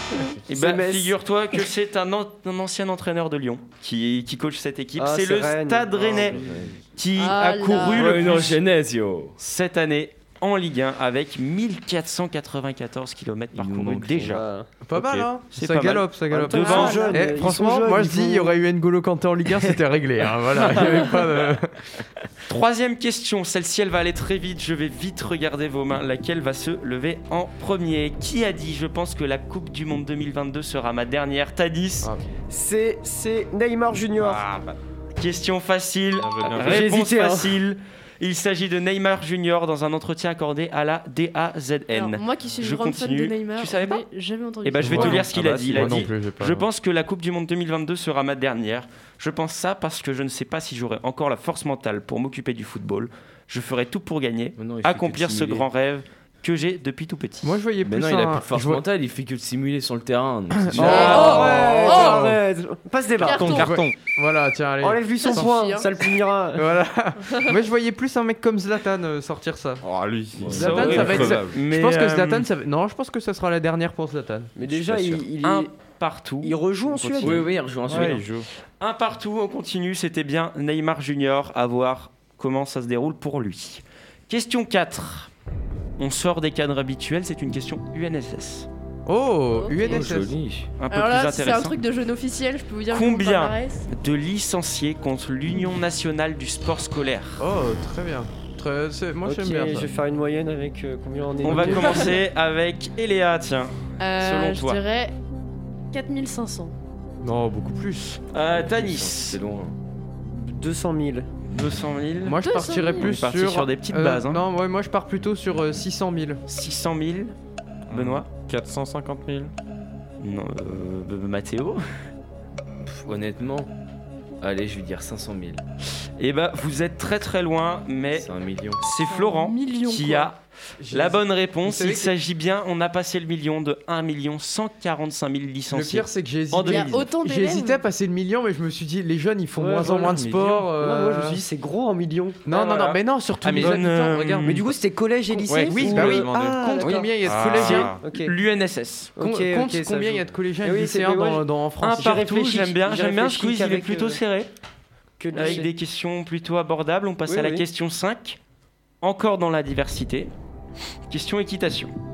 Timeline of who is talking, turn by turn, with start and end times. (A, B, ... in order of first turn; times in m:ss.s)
0:00.5-0:06.4 A
0:00.5-0:01.1 B
0:05.0-0:06.2 B
0:06.0-0:06.8 C
0:06.9-0:08.6 A
0:07.2-0:08.0 D
0:07.9-0:09.4 C
0:09.4-0:14.4 A
0:13.5-0:14.4 C
0:14.3-0:14.7 B
0:14.8-0:22.0 E
0:15.0-0:15.3 F
0:15.5-0:17.2 A
0:16.3-0:18.6 B
0:16.6-0:17.2 D
0:20.7-0:21.0 A
0:22.5-0:32.1 A
0:32.5-0:34.4 B
0:34.1-0:34.8 F
0:35.2-0:44.0 A
0:36.1-0:36.9 F
0:36.5-0:37.6 B
0:41.9-0:45.3 D
0:44.6-0:57.6 A
0:44.8-0:46.7 E
0:45.4-0:46.0 C
0:54.6-0:55.6 C
0:57.4-0:58.8 E
0:57.8-1:01.2 C
1:00.5-1:02.4 E
1:00.8-1:03.7 B
1:00.8-1:02.2 D
1:03.2-1:03.7 D
1:03.3-1:04.0 F
1:03.6-1:05.5 E
1:04.8-1:06.7 B
1:05.2-1:05.9 D
1:06.5-1:09.8 E
1:09.8-1:11.6 F
1:10.4-1:11.3 C
1:10.4-1:14.5 E
1:10.5-1:12.5 A
1:14.6-1:15.7 B
1:14.7-1:15.2 C
1:15.4-1:18.2 A
1:16.4-1:17.5 B
1:17.2-1:18.2 C
1:17.9-1:18.5 F
1:18.8-1:25.3 A
1:26.0-1:28.7 A
1:29.0-1:30.4 E
1:29.5-1:30.1 D
1:29.9-1:30.7 C
1:30.8-1:31.8 A
1:30.9-1:33.9 D
1:32.9-1:37.4 A
1:37.4-1:39.9 E
1:39.2-1:42.2 B
1:41.4-1:41.9 E
1:41.4-1:44.8 A
1:44.0-1:45.1 D
1:45.9-1:46.7 D
1:47.2-1:48.2 E
1:48.3-1:49.4 A
1:48.4-1:49.7 C
1:50.2-1:51.3 B
1:51.5-1:54.4 A
1:52.2-1:56.4 E
1:52.4-1:53.1 D
1:56.5-1:57.3 A
1:57.9-1:59.5 F
1:57.9-1:58.3 A
2:00.2-2:01.8 A
2:02.8-2:03.7 C
2:04.4-2:05.6 C
2:06.2-2:16.9 A
2:08.2-2:08.8 C
2:09.0-2:10.3 D
2:10.8-2:12.1 E
2:15.7-2:21.4 E
2:16.6-2:17.8 D
2:19.6-2:22.4 B
2:20.1-2:20.6 F
2:22.4-2:24.7 E
2:22.5-2:23.0 A
2:23.4-2:23.8 F
2:23.5-2:24.6 A
2:24.4-2:27.4 B
2:25.4-2:28.0 F
2:25.6-2:27.9 E
2:27.4-2:29.1 A
2:28.0-2:28.3 B
2:29.2-2:31.4 B
2:29.2-2:32.2 E
2:31.8-2:34.5 A
2:32.0-2:34.2 B
2:35.2-2:35.7 B
2:35.3-2:38.4 A
2:35.3-2:35.6 D
2:37.3-2:37.6 B
2:39.0-2:40.3 A
2:41.1-2:41.9 A